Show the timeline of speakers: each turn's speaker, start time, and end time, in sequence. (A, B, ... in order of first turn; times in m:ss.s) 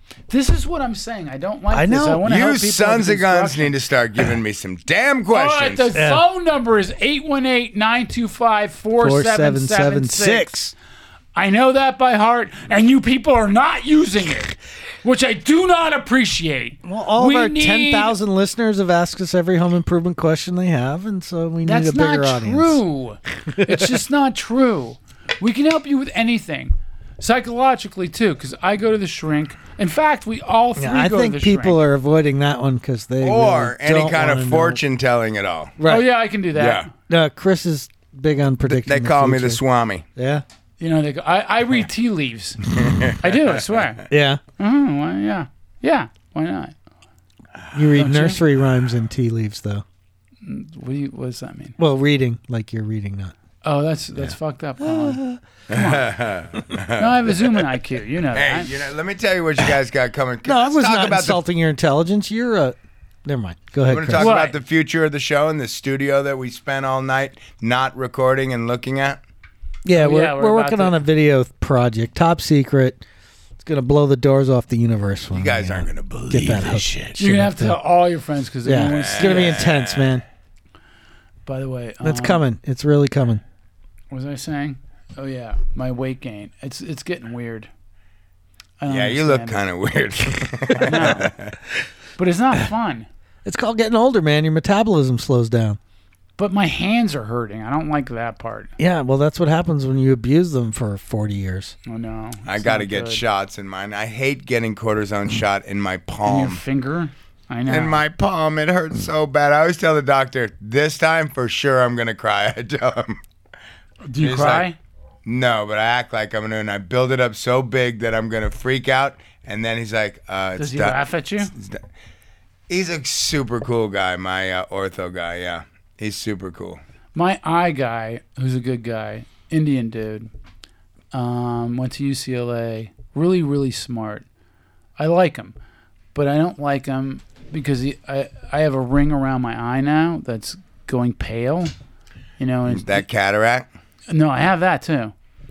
0:00.3-0:03.7 A
0:01.7-0:02.2 B
0:02.2-0:05.9 C
0:05.3-0:10.5 A
0:05.9-0:06.2 B
0:09.0-0:10.7 B
0:11.3-0:18.1 A
0:16.8-0:22.8 B
0:21.6-0:31.8 A
0:23.5-0:23.9 B
0:30.8-0:34.8 B
0:33.2-0:35.8 C
0:35.8-0:36.1 B
0:35.8-0:36.9 A
0:36.5-0:36.9 C
0:37.1-0:39.6 B
0:38.7-0:40.0 C
0:40.2-0:40.4 B
0:40.8-0:42.6 A
0:42.7-0:43.3 C
0:43.2-0:44.0 A
0:44.1-0:44.4 B
0:44.6-0:46.7 A
0:47.7-0:49.8 B
0:47.9-0:48.4 A
0:50.4-0:51.8 A
0:51.8-0:53.3 B
0:53.6-0:56.2 A
0:54.8-0:55.4 B
0:55.7-0:57.5 C
0:57.0-0:58.7 A
0:58.3-1:01.4 C
1:00.4-1:04.3 B
1:03.9-1:09.2 C
1:04.2-1:04.5 A
1:09.8-1:13.0 B
1:09.9-1:11.0 A
1:13.6-1:17.8 B
1:15.3-1:17.2 C
1:17.2-1:19.6 A
1:18.6-1:20.2 B
1:18.9-1:20.1 C
1:21.4-1:22.4 A
1:22.0-1:23.4 B
1:24.1-1:27.7 A
1:28.8-1:29.6 A
1:28.9-1:31.6 C
1:30.8-1:31.3 A
1:32.2-1:33.1 A
1:33.4-1:35.8 B
1:36.4-1:38.7 A
1:38.8-1:41.7 B
1:41.8-1:43.2 A
1:42.4-1:46.6 C
1:46.2-1:48.0 A
1:47.7-1:53.2 C
1:54.0-1:54.8 A
1:54.2-1:54.7 C
1:55.2-2:01.0 C
2:00.6-2:01.5 A
2:01.5-2:01.8 C
2:02.7-2:06.8 C
2:07.1-2:10.3 A
2:11.1-2:14.2 A
2:15.0-2:15.5 A
2:16.1-2:21.7 A
2:22.4-2:23.0 A
2:22.7-2:23.7 C
2:24.1-2:25.1 A